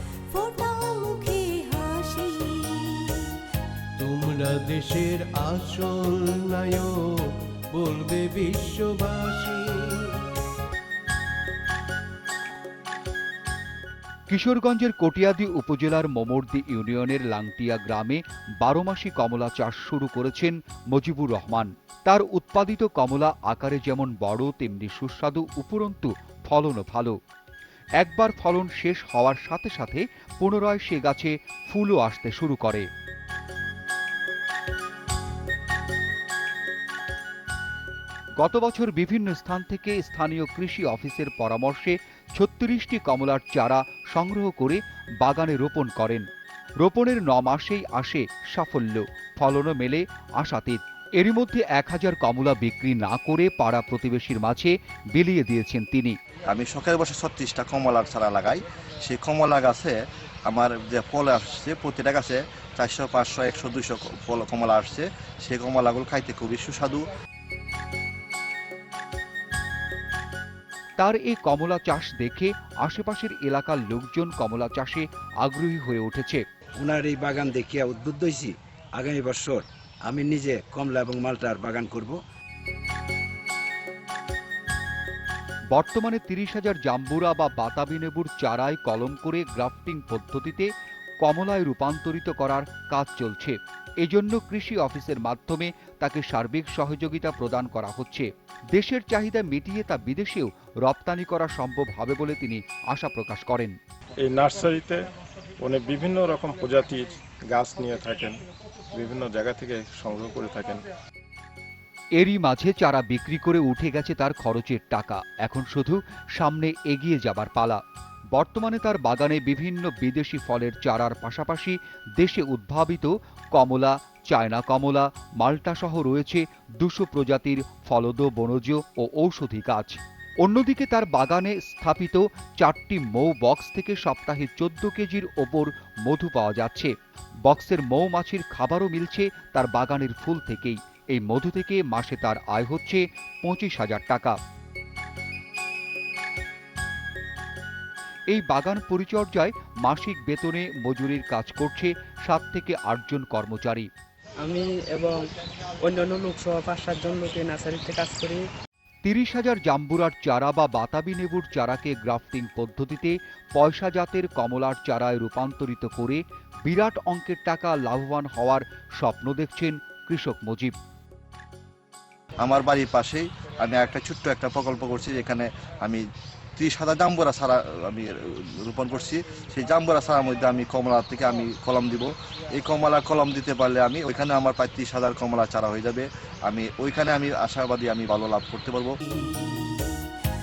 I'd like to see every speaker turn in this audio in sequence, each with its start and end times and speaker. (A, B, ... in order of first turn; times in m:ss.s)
0:00.3-0:03.4 A
0:04.0-0:10.2 B
0:14.3-0:27.2 C
0:28.0-0:32.9 C
0:38.4-0:46.3 C
0:46.8-0:56.2 C
0:56.5-0:59.9 D
1:00.5-1:07.0 D
1:11.0-1:16.4 C
1:16.8-1:22.2 E
1:25.7-1:30.7 C
1:31.2-1:43.8 C
1:44.2-1:45.0 F
1:45.6-1:48.4 F
1:49.0-1:50.8 F
1:52.2-1:57.8 C
1:58.3-2:16.9 C
2:17.5-2:24.4 C
2:28.3-2:33.9 C
2:34.4-2:35.2 G
2:35.9-2:38.4 G
2:39.0-2:50.7 C
2:52.4-2:56.0 D
2:56.6-3:08.9 D